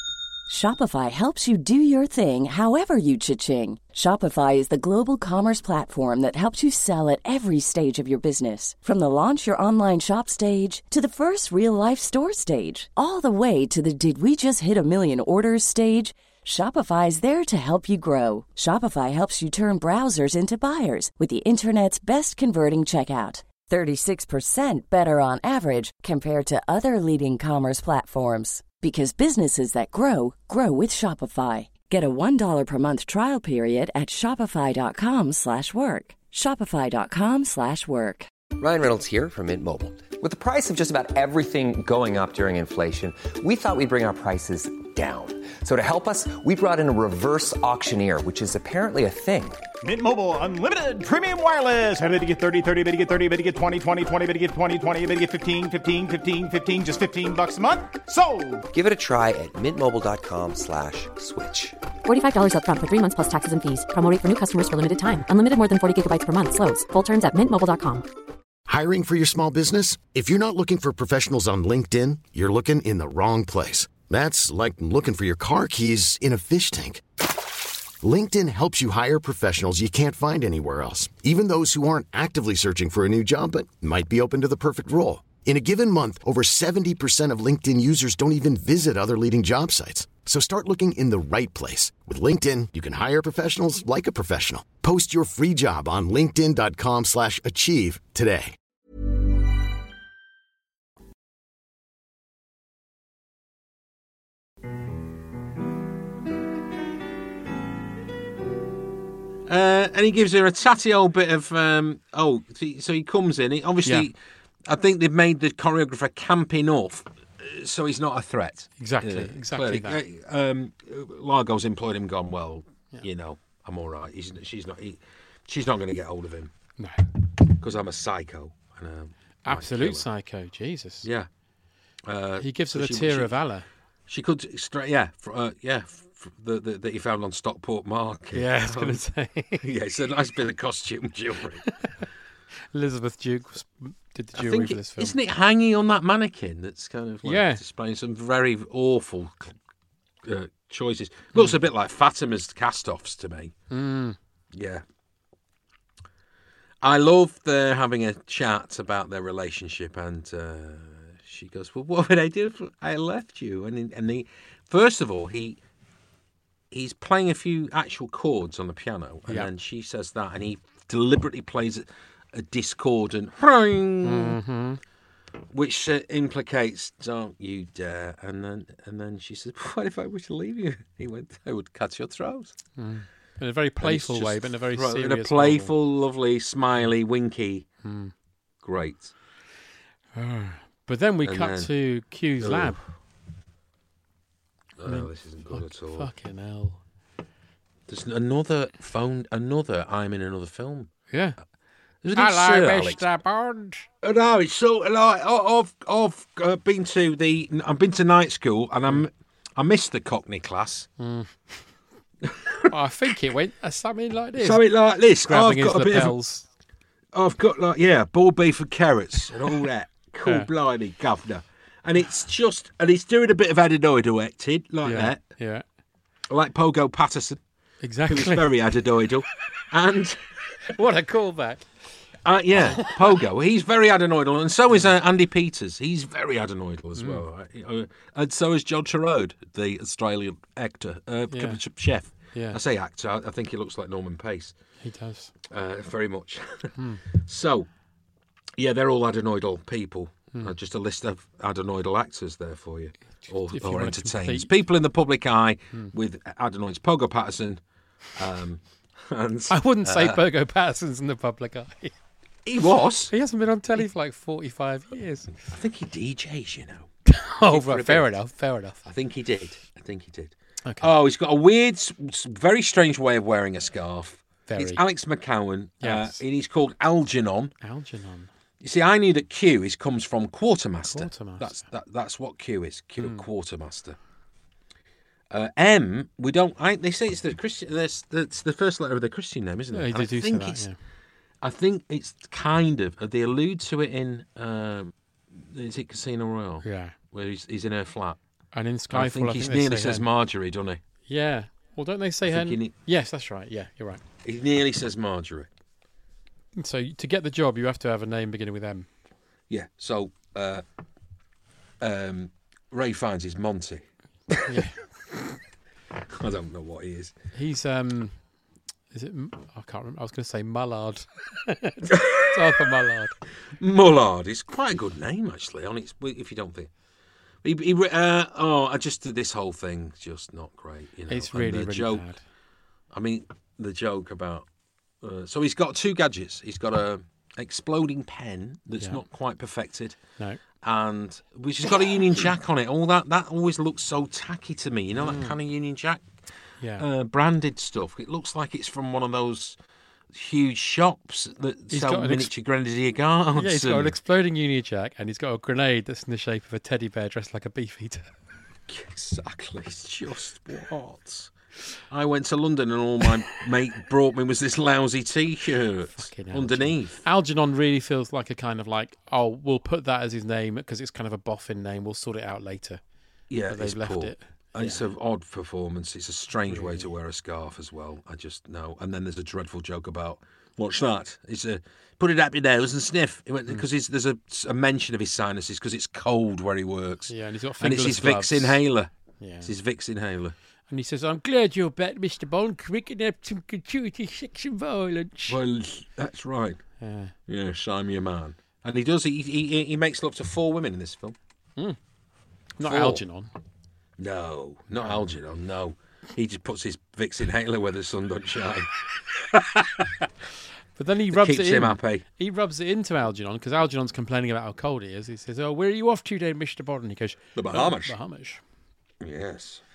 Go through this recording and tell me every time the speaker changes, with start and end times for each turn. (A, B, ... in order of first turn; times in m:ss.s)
0:00.5-0:38.3 A
0:38.6-0:49.6 B
0:49.8-0:58.7 C
0:58.7-1:01.8 B
1:02.0-1:08.0 D
1:08.7-1:17.2 E
1:18.0-1:38.6 E
1:49.5-1:54.1 F
1:54.7-2:06.5 F
1:58.8-2:00.0 G
2:06.8-2:07.1 G
2:07.5-2:10.1 F
2:09.4-2:11.1 G
2:11.0-2:11.3 F
2:12.1-2:13.3 F
2:12.4-2:13.7 G
2:14.1-2:19.0 F
2:18.3-2:19.6 G
2:19.6-2:21.7 F
2:21.8-2:22.0 G
2:22.7-2:25.2 G
2:24.4-2:29.6 F
2:27.2-2:27.6 G
2:30.2-2:33.5 F
2:33.7-2:34.2 G
2:34.5-2:34.8 F
2:36.8-2:45.6 F
2:46.7-2:54.4 F
2:54.0-2:54.8 G
2:55.5-3:02.6 F
3:02.8-3:05.7 G
3:03.8-3:07.7 F
3:07.8-3:08.1 G
3:08.6-3:09.1 F
3:10.2-3:12.8 G
3:11.2-3:11.7 F
3:12.4-3:12.8 F
3:14.8-3:16.1 F
3:14.9-3:16.8 G
3:17.9-3:20.9 F
3:21.1-3:21.4 G
3:22.0-3:23.0 F
3:22.2-3:23.9 G
3:24.0-3:30.9 F
3:31.0-3:31.6 G
3:32.2-3:32.7 F
3:32.7-3:34.6 G
3:34.4-3:36.2 F
3:35.3-3:36.4 G
3:37.1-3:45.2 F
3:40.2-3:40.5 G
3:44.8-3:45.6 G
3:46.3-3:47.4 F
3:47.8-3:48.5 G
3:48.1-3:50.6 F
3:50.7-3:51.7 G
3:52.2-4:04.5 F
3:52.6-3:53.0 G
4:01.3-4:01.6 G
4:02.3-4:02.6 G
4:04.8-4:05.3 G
4:05.5-4:07.7 F
4:06.8-4:07.0 G
4:08.6-4:17.6 F
4:13.3-4:14.5 G
4:18.1-4:20.2 F
4:19.5-4:22.0 G
4:22.5-4:23.1 F
4:23.1-4:25.3 G
4:25.4-4:26.9 F
4:27.1-4:28.8 G
4:27.4-4:28.1 F
4:28.8-4:37.5 F
4:30.7-4:30.9 G
4:34.5-4:34.8 G
4:35.8-4:36.2 G
4:37.6-4:38.3 G
4:38.6-4:44.0 F
4:40.9-4:41.6 G
4:43.0-4:43.3 G
4:45.3-4:50.7 F
4:49.7-4:50.8 G
4:51.4-4:58.2 F
4:56.6-4:57.0 G
4:58.5-5:00.1 G
4:58.9-5:00.8 F
5:01.1-5:04.0 G
5:02.3-5:02.7 F
5:04.2-5:05.5 F
5:06.6-5:08.9 G
5:09.5-5:10.6 F
5:11.8-5:14.6 F
5:14.4-5:14.8 G
5:16.1-5:17.2 F
5:17.4-5:18.2 G
5:18.9-5:23.2 G
5:21.9-5:22.3 F
5:23.6-5:26.7 F
5:27.4-5:32.1 F
5:31.1-5:32.2 G
5:32.9-5:34.5 F
5:35.0-5:40.0 F
5:40.6-5:46.0 F
5:45.0-5:45.4 G
5:46.6-5:46.9 G
5:46.8-5:49.6 F
5:50.1-5:54.0 F
5:51.7-5:52.3 G
5:53.4-5:58.1 G
5:58.7-6:01.3 F
6:01.9-6:07.0 F
6:06.0-6:12.8 G
6:13.3-6:28.9 F
6:13.5-6:14.9 G
6:16.5-6:16.9 G
6:27.1-6:28.6 G
6:29.2-6:29.5 G
6:29.4-6:30.4 F
6:30.7-6:35.4 G
6:35.3-6:36.6 F
6:36.8-6:37.2 G
6:37.3-6:41.2 F
6:42.6-6:43.3 G
6:42.6-6:43.0 F
6:44.0-6:50.1 F
6:50.8-6:58.4 G
6:51.1-6:52.0 F
6:57.4-6:58.0 F
6:59.0-6:59.6 F